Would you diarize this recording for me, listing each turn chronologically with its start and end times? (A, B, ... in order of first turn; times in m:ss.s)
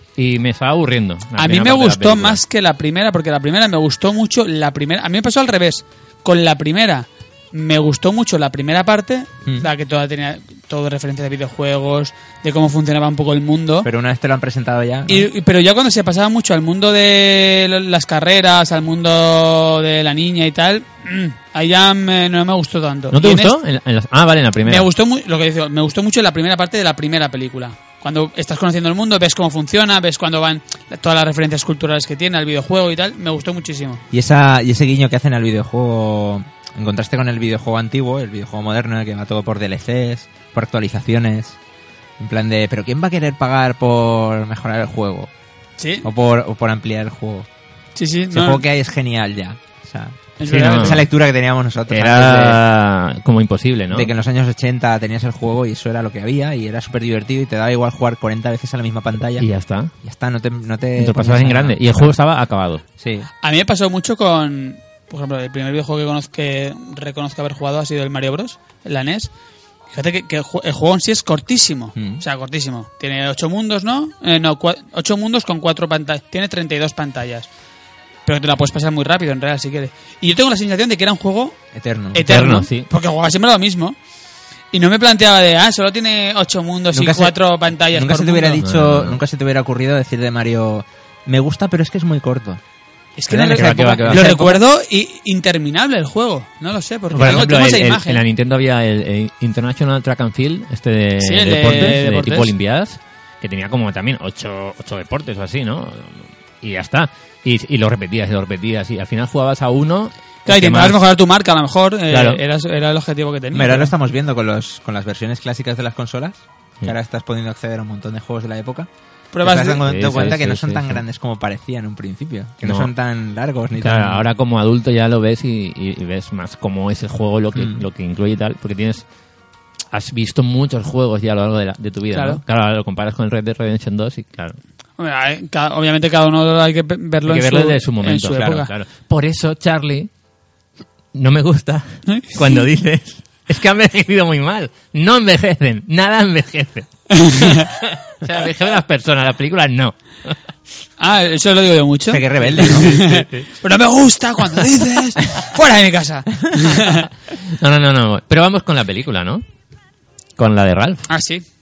0:00.2-0:02.4 A
0:01.4-0:13.9 B
0:13.8-0:15.3 C
0:15.1-0:23.6 B
0:23.1-0:24.9 A
0:24.6-0:34.0 B
0:34.1-0:41.6 C
0:42.2-0:45.3 C
0:45.8-0:46.1 B
0:46.0-0:47.5 C
0:47.9-0:48.6 B
0:48.3-0:52.6 C
0:50.4-0:51.0 B
0:50.4-0:51.0 A
0:51.9-0:54.1 A
0:53.9-0:59.5 C
0:59.4-0:59.9 A
1:00.0-1:02.1 C
1:01.0-1:02.8 A
1:03.0-1:03.3 C
1:03.4-1:09.3 B
1:09.9-1:17.5 B
1:12.0-1:12.2 C
1:18.2-1:21.6 B
1:21.7-1:22.3 C
1:22.1-1:24.0 B
1:22.2-1:22.9 A
1:24.7-1:28.6 B
1:26.9-1:32.6 C
1:28.6-1:29.2 A
1:33.2-1:38.2 B
1:33.3-1:34.3 C
1:33.5-1:34.6 A
1:37.1-1:51.0 A
1:37.2-1:37.7 C
1:41.2-1:42.5 B
1:50.5-1:53.9 B
1:52.1-1:52.4 A
1:53.5-1:58.9 C
1:59.3-1:59.8 B
1:59.4-2:04.2 C
1:59.8-2:01.0 A
2:02.6-2:02.9 A
2:03.8-2:09.0 A
2:07.5-2:07.8 C
2:09.9-2:14.6 A
2:12.1-2:12.4 B
2:15.0-2:18.7 B
2:17.2-2:20.1 A
2:21.1-2:30.4 A
2:22.1-2:22.6 B
2:27.1-2:27.7 B
2:31.0-2:37.1 B
2:32.1-2:33.2 C
2:33.0-2:33.4 A
2:37.5-2:39.4 A
2:40.4-2:41.1 A
2:41.1-2:41.4 B